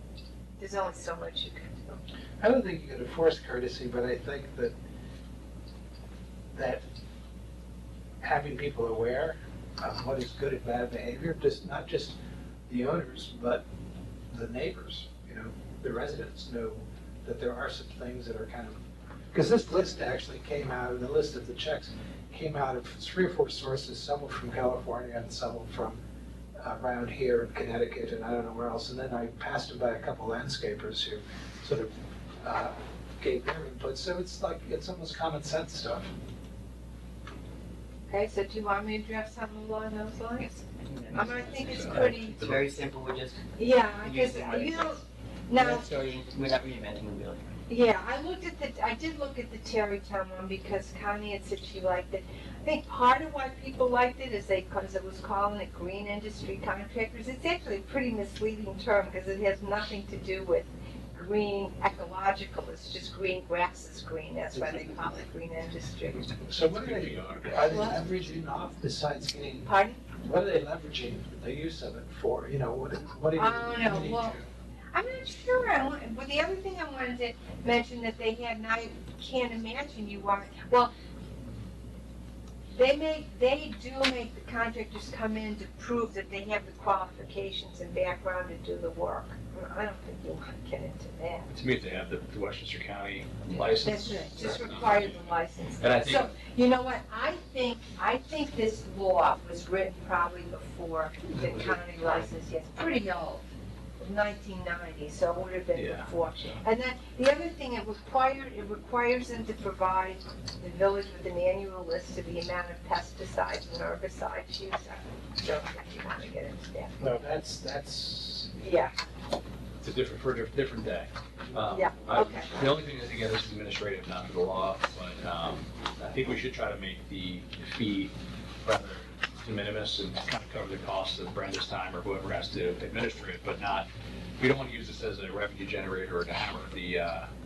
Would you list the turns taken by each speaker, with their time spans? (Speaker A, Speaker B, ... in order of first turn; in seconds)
Speaker A: 0.6-1.7, 38.1-42.4, 43.6-45.9, 47.7-66.5, 67.6-68.0, 69.7-70.0, 73.3-74.4, 74.9-80.9, 82.7-91.5, 93.8-103.4, 104.0-116.9, 118.6-118.9, 121.7-122.5
Speaker B: 2.4-4.8, 6.5-6.8, 8.2-12.2, 12.7-13.6, 14.3-18.8, 19.3-26.0, 26.6-36.1, 66.5-69.7, 70.2-74.5, 117.0-118.5
Speaker C: 40.8-43.4, 44.0-45.0, 45.5-47.5
Speaker D: 41.2-42.6, 66.8-68.0, 91.5-95.2, 95.8-96.3, 101.4-102.3, 105.8-106.6, 119.8-128.1, 128.6-137.3